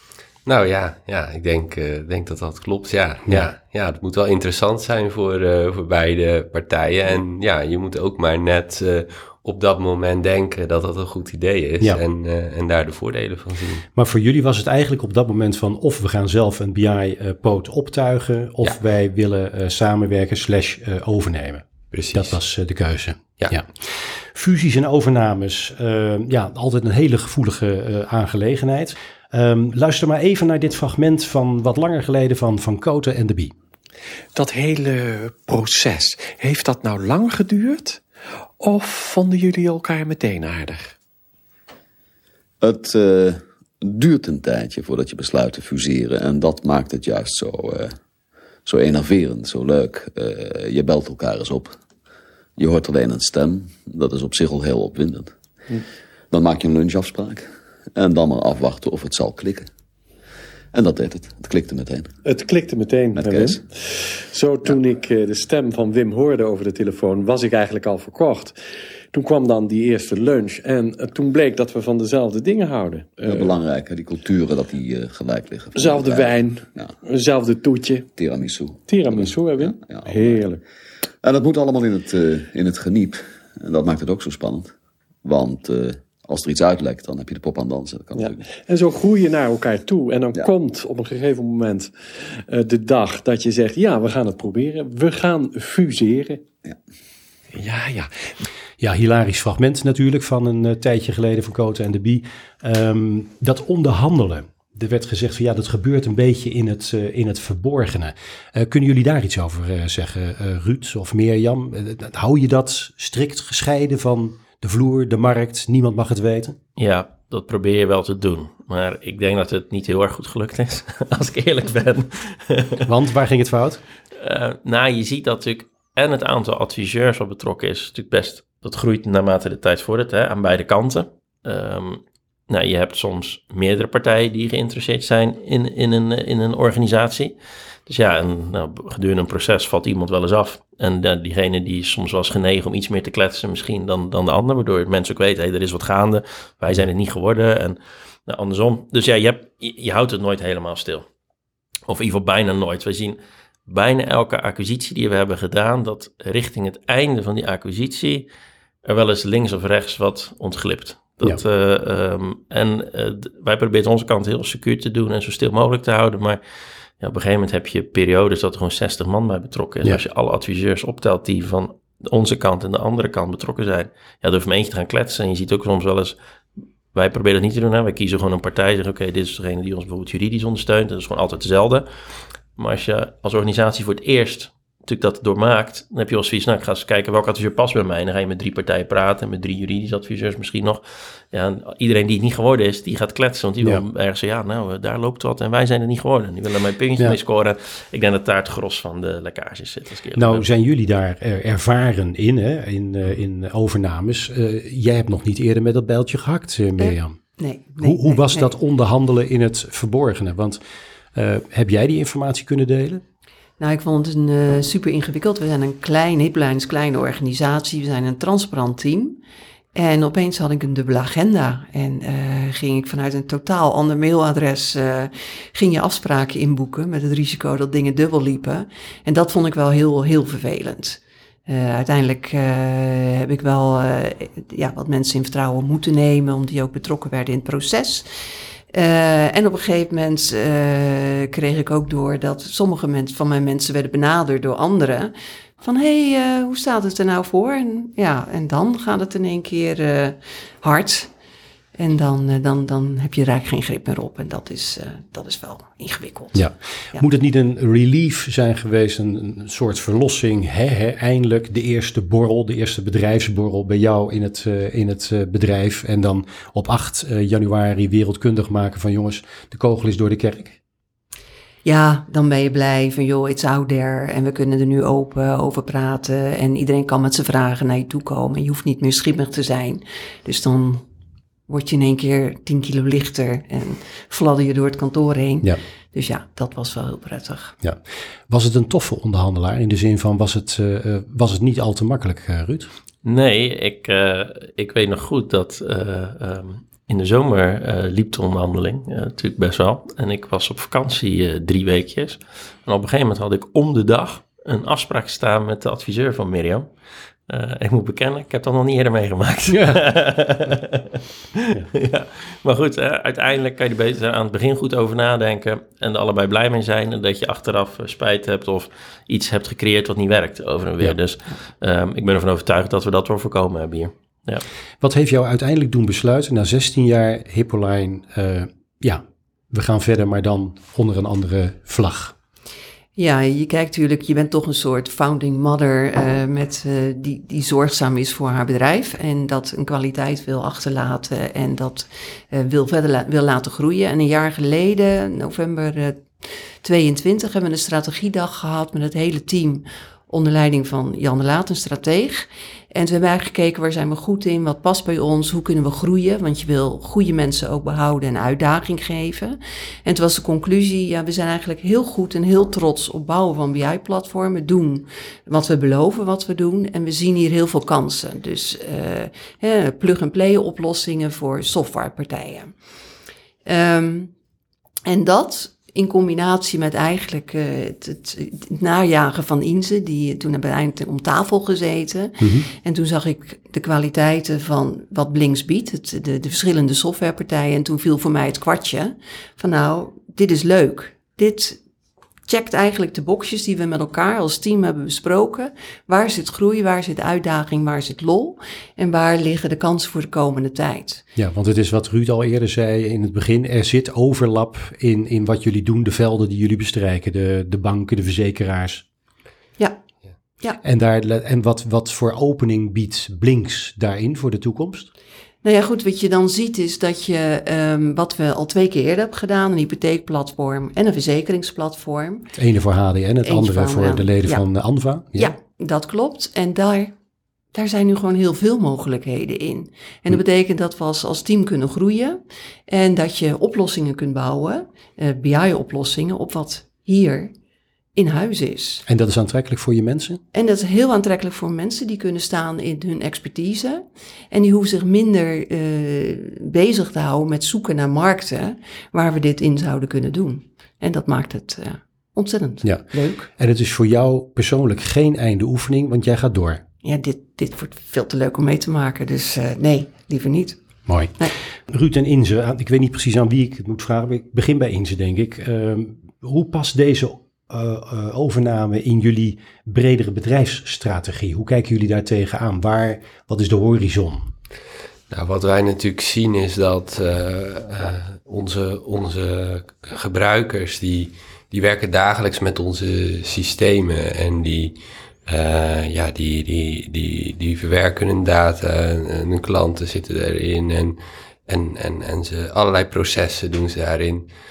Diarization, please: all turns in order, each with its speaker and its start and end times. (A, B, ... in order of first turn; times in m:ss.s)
0:00.4-0:13.8 A
0:14.0-0:33.5 B
0:21.9-0:22.4 A
0:34.4-0:38.0 C
0:38.6-0:41.0 C
0:42.6-0:48.0 D
0:48.6-0:51.8 D
0:52.6-0:55.3 D
0:56.3-0:59.7 D
1:00.7-1:02.1 D
1:02.2-1:08.6 C
1:03.2-1:03.6 D
1:09.1-1:13.5 C
1:13.3-1:16.9 D
1:15.8-1:18.1 C
1:18.2-1:20.4 D
1:18.9-1:20.6 C
1:21.2-1:24.7 D
1:25.2-1:28.4 D
1:28.2-1:36.4 C
1:37.5-1:38.3 C
1:38.8-1:56.6 B
1:56.8-2:02.9 E
2:02.9-2:03.8 B
2:04.2-2:17.4 E
2:17.9-2:31.0 E
2:31.9-2:38.3 E
2:38.8-2:46.4 E
2:47.0-2:56.2 E
2:56.9-3:01.9 E
3:02.6-3:20.4 E
3:20.2-3:30.6 B
3:26.8-3:28.5 F
3:31.1-3:33.0 B
3:33.6-3:39.2 F
3:39.8-3:58.1 F
3:58.7-4:11.1 F
4:11.8-4:17.0 F
4:16.3-4:30.6 B
4:31.6-4:40.8 F
4:41.5-4:47.6 F
4:47.6-4:52.7 B
4:53.0-5:06.7 E
5:07.3-5:24.4 E
5:09.5-5:09.8 B
5:24.8-5:32.1 B
5:33.0-6:12.5 F
6:13.5-6:14.1 F
6:14.9-6:31.6 F
6:22.2-6:22.5 B
6:32.3-6:41.0 F
6:41.2-6:48.8 B
6:50.6-6:54.9 B
6:55.4-7:02.3 F
7:02.4-7:05.3 B
7:03.2-7:04.4 F
7:05.2-7:06.9 F
7:07.5-7:17.3 F
7:18.0-7:18.8 F
7:18.9-7:20.2 B
7:20.3-7:33.3 F
7:32.6-7:36.6 B
7:36.8-7:40.6 F
7:40.9-7:41.2 B
7:41.7-7:54.3 B
7:55.1-8:14.3 A